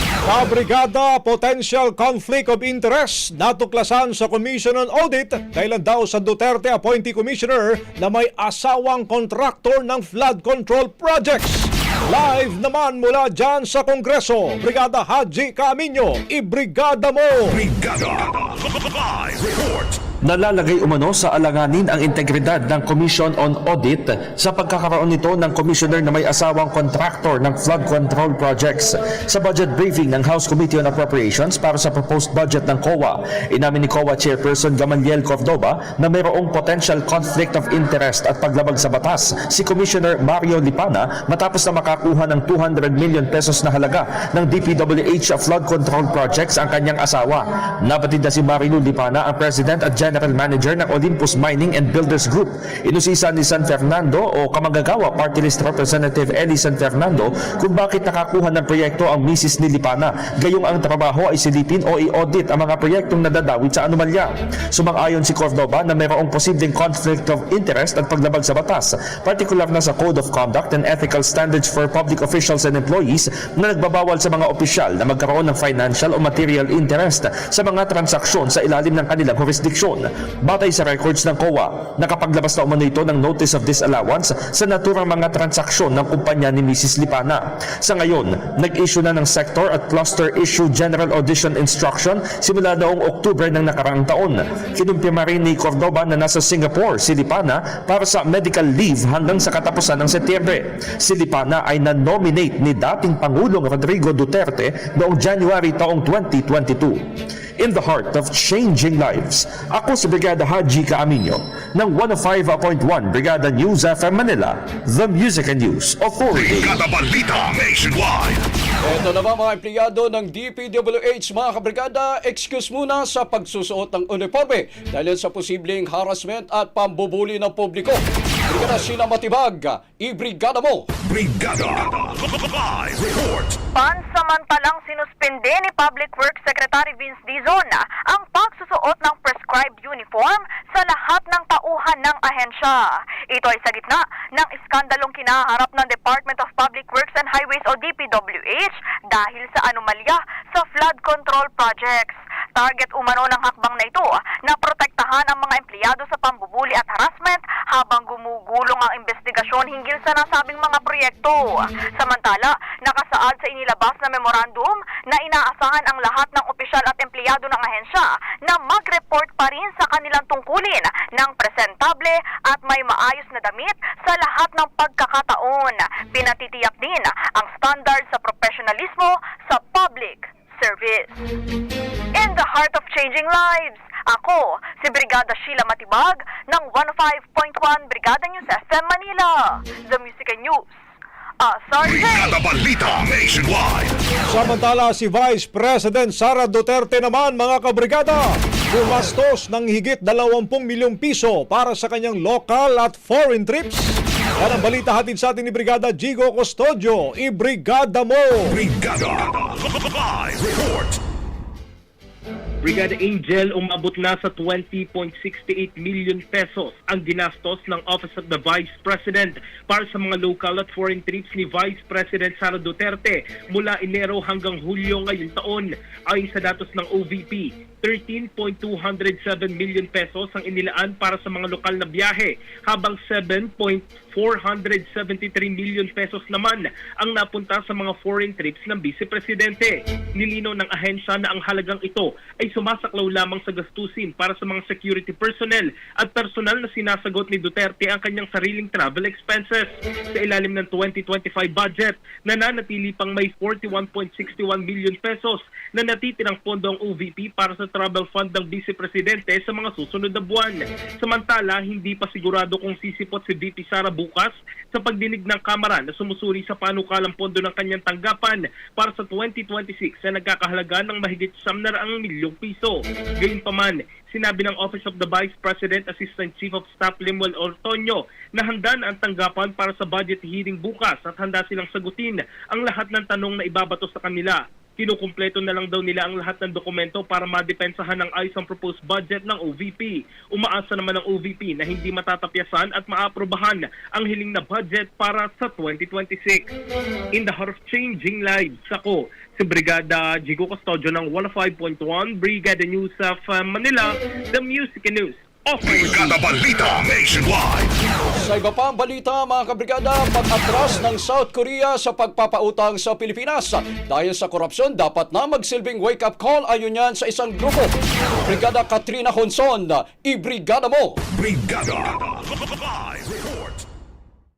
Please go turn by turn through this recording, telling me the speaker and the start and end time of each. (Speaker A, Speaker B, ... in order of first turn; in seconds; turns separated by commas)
Speaker A: 0.2-17.6, Speaker B: 17.5-20.0, Speaker C: 20.2-107.0, Speaker C: 107.6-116.8, Speaker B: 116.4-118.4, Speaker D: 118.8-130.9, Speaker B: 131.0-133.6, Speaker E: 133.7-142.8, Speaker E: 143.3-181.2, Speaker E: 182.2-190.7, Speaker E: 191.4-192.4, Speaker B: 191.8-194.0, Speaker A: 194.3-208.6, Speaker B: 208.5-211.0, Speaker F: 212.6-296.4, Speaker F: 297.2-306.2, Speaker B: 305.7-307.7, Speaker D: 308.2-317.7, Speaker D: 318.3-320.9, Speaker B: 321.1-323.6